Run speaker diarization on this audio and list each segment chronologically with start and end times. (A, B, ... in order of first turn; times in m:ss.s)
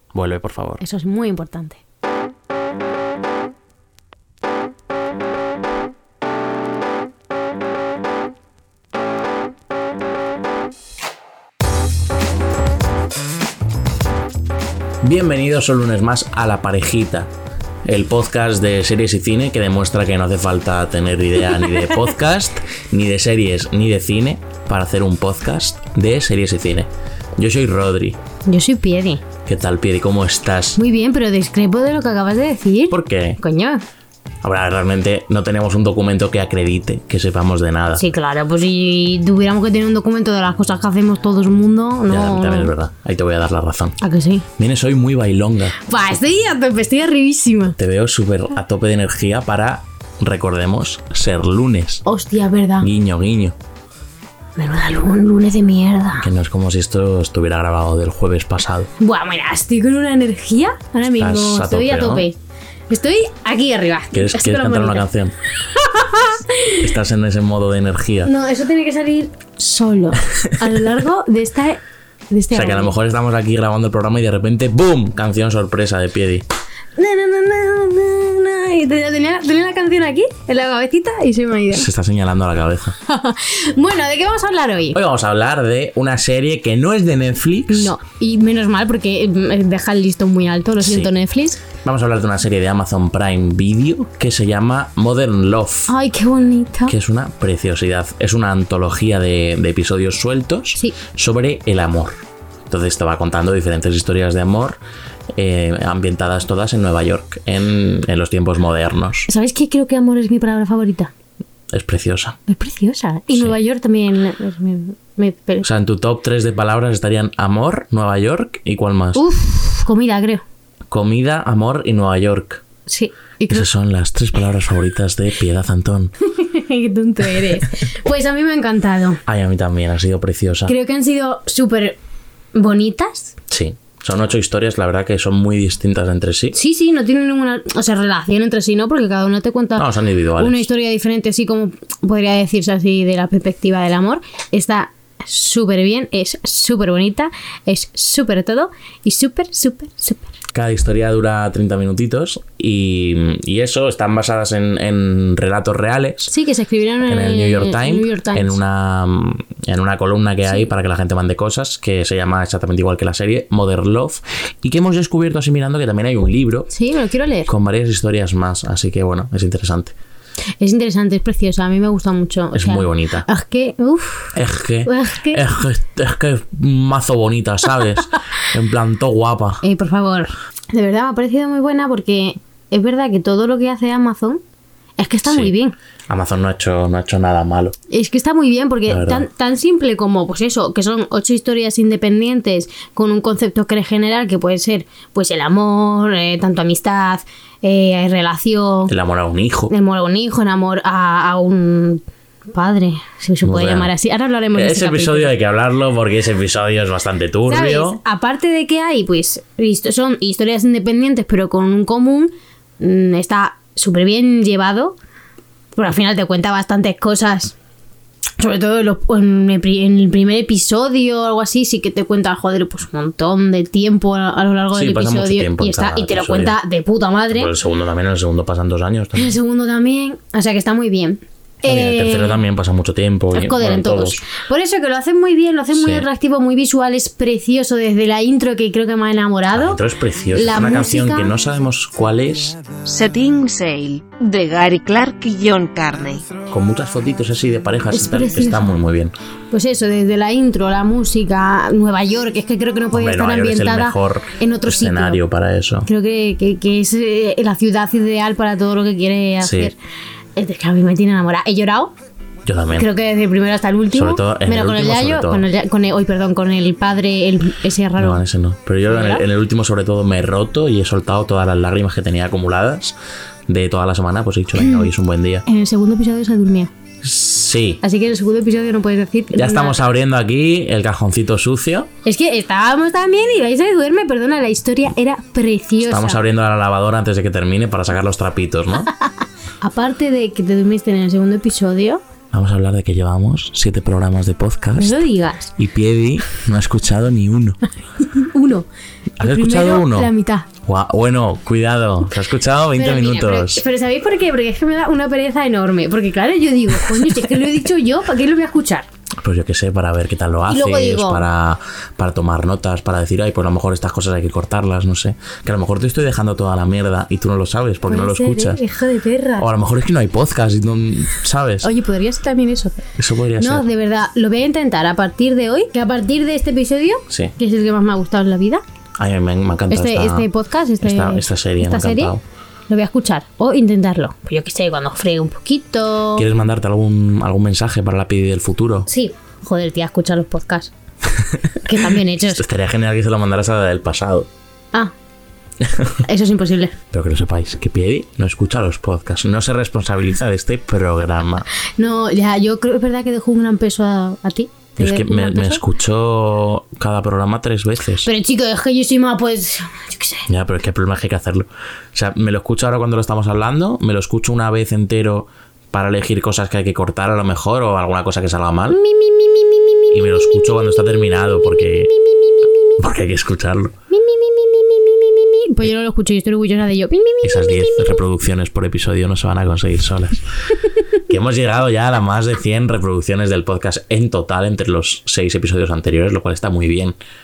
0:00.1-0:00.8 A
0:00.8-0:01.8 B
0:15.0-0:17.3 A
0:17.8-0:28.2 A
0:28.4-0:29.2 B
0:29.4-0:30.8 A
0:30.8-0:33.8 B
0:32.9-0:33.4 A
0:34.4-0:38.0 A
0:38.0-0:42.7 B
0:42.1-0:44.0 A
0:44.0-0:44.4 B
0:44.6-0:45.8 A
0:45.8-0:47.8 B
0:47.8-0:52.0 A
0:52.0-0:52.9 B
0:52.8-0:53.5 A
0:54.6-0:56.3 B
0:56.2-0:58.9 A
0:59.0-1:02.4 B
1:01.0-1:02.3 A
1:02.9-1:05.1 B
1:04.1-1:05.3 A
1:05.7-1:06.8 B
1:06.8-1:08.3 A
1:08.2-1:12.9 B
1:12.5-1:16.4 A
1:17.0-1:21.9 B
1:21.7-1:23.0 A
1:23.1-1:25.0 B
1:24.9-1:27.9 A
1:27.7-1:31.6 B
1:30.8-1:31.1 A
1:31.7-1:35.9 A
1:35.9-1:36.9 B
1:36.9-1:42.2 A
1:42.7-1:44.8 A
1:45.3-1:49.3 A
1:49.3-1:51.1 B
1:51.7-1:52.4 A
1:52.5-1:55.7 B
1:53.3-1:53.6 A
1:55.6-1:59.2 A
1:59.1-2:00.4 B
2:00.9-2:02.6 A
2:02.9-2:03.7 B
2:03.5-2:06.1 A
2:06.3-2:09.2 B
2:09.2-2:10.7 A
2:10.6-2:12.0 B
2:12.5-2:13.4 B
2:13.5-2:16.6 A
2:16.5-2:30.3 B
2:19.8-2:20.7 A
2:30.5-2:36.3 A
2:36.3-2:38.6 B
2:37.0-2:46.7 A
2:46.7-2:47.5 B
2:47.5-2:49.9 A
2:50.6-2:55.4 B
2:52.5-2:53.3 A
2:54.3-2:59.6 A
2:59.6-3:04.4 B
3:05.0-3:05.7 B
3:06.1-3:07.8 A
3:07.9-3:18.9 B
3:08.9-3:09.2 A
3:18.9-3:19.7 A
3:19.7-3:25.4 B
3:23.4-3:23.9 A
3:24.5-3:28.0 A
3:27.5-3:35.0 B
3:35.8-3:37.5 B
3:38.4-3:47.5 B
3:44.7-3:46.6 A
3:47.3-3:49.4 A
3:49.1-3:52.4 B
3:51.6-3:54.2 A
3:53.3-3:59.8 B
3:55.7-3:56.0 A
3:59.5-4:02.6 A
4:00.3-4:01.3 B
4:02.8-4:06.3 C
4:06.5-4:09.1 A
4:07.9-4:08.7 B
4:09.5-4:15.2 B
4:12.9-4:15.9 A
4:15.8-4:19.7 B
4:19.4-4:19.7 A
4:20.4-4:21.9 B
4:22.4-4:22.9 A
4:22.7-4:28.2 B
4:23.9-4:25.5 A
4:28.0-4:32.9 A
4:28.9-4:29.2 B
4:33.5-4:35.4 A
4:34.6-4:34.9 B
4:35.4-4:36.7 B
4:37.0-4:37.8 A
4:37.8-4:39.8 B
4:39.3-4:41.9 A
4:42.0-4:46.2 B
4:45.8-4:48.9 A
4:49.6-4:52.0 B
4:52.3-4:55.0 A
4:54.8-4:55.5 B
4:55.6-4:57.6 A
4:58.1-4:58.6 B
4:59.2-5:00.1 A
4:59.2-5:00.5 B
5:00.6-5:03.6 A
5:02.7-5:08.9 B
5:09.2-5:18.6 A
5:10.5-5:11.2 B
5:17.9-5:19.5 B
5:19.4-5:21.7 A
5:21.6-5:22.8 B
5:23.0-5:23.7 A
5:23.4-5:28.6 B
5:29.0-5:30.3 A
5:29.7-5:32.2 B
5:30.8-5:32.2 A
5:32.7-5:36.2 B
5:36.1-5:38.9 A
5:38.9-5:40.7 B
5:41.6-5:42.4 B
5:42.2-5:44.3 A
5:45.6-5:46.0 A
5:46.0-5:46.8 B
5:46.9-5:51.5 A
5:51.8-5:55.6 B
5:54.8-5:58.1 A
5:58.0-6:00.3 B
6:00.3-6:08.8 A
6:08.7-6:12.8 B
6:09.9-6:11.9 A
6:12.8-6:13.7 A
6:13.9-6:18.0 B
6:17.2-6:20.2 A
6:21.1-6:27.0 A